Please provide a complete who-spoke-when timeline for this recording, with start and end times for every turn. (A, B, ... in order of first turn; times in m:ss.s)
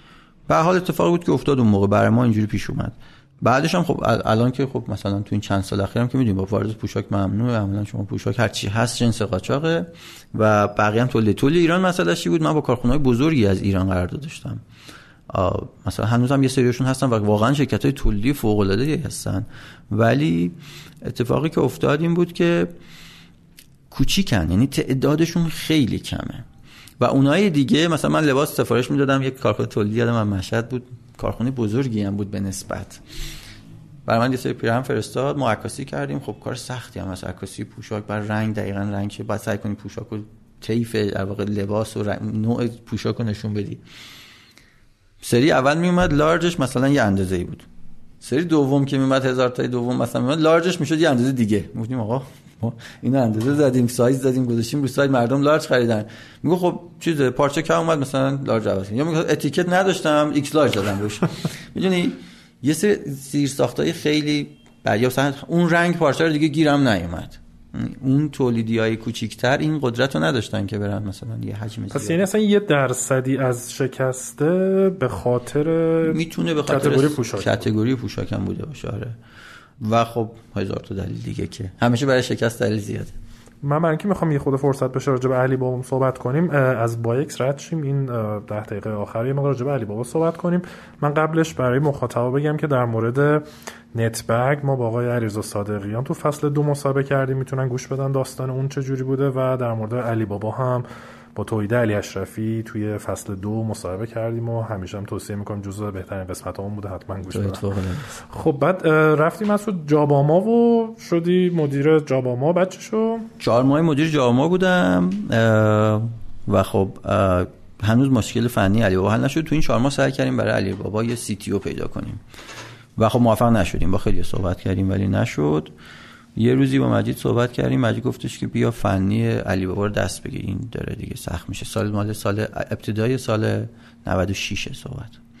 0:00.5-0:14.6 A
0:15.3-0:22.7 A
0:23.9-0:26.4 A
0:27.0-0:33.0 A
0:34.0-0:43.8 A
0:45.2-0:47.6 A
0:48.2-1:12.2 A
1:11.9-1:17.7 B
1:16.0-1:19.2 A
1:19.8-1:23.1 A
1:23.6-1:47.6 B
1:47.3-1:48.2 A
1:48.2-1:53.3 B
1:53.4-2:02.2 A
2:03.0-2:05.7 A
2:06.4-2:15.2 A